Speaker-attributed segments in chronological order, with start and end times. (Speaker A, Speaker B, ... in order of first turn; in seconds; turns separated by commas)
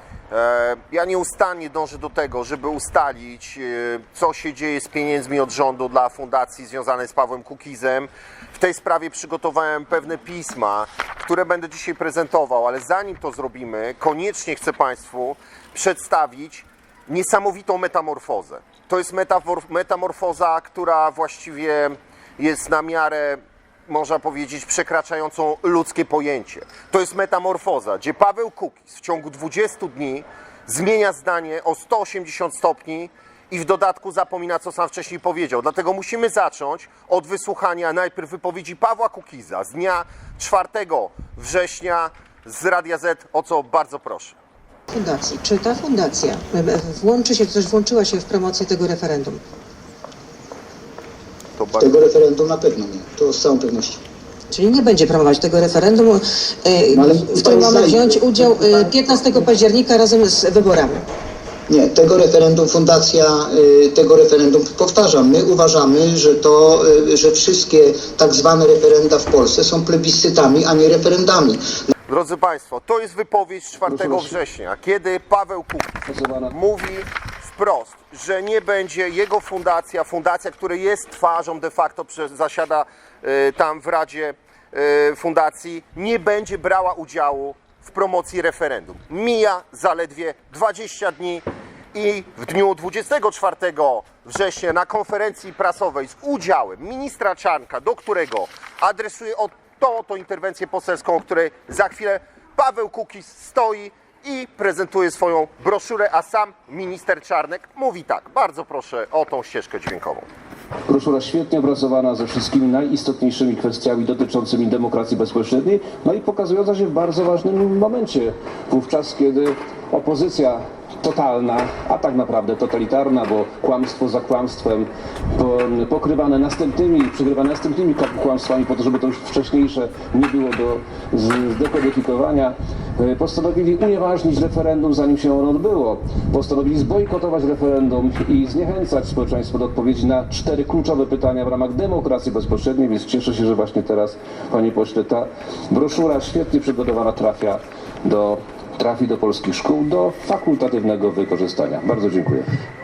Speaker A: 0.3-44.4, Speaker B: 44.9-49.4, Speaker A: 51.6-52.2, Speaker C: 51.8-54.0, Speaker B: 54.5-61.0, Speaker C: 56.9-59.4, Speaker C: 61.7-71.6, Speaker A: 72.1-76.0, Speaker D: 73.9-74.4, Speaker D: 76.1-76.5, Speaker A: 76.5-110.3, Speaker D: 110.9-152.5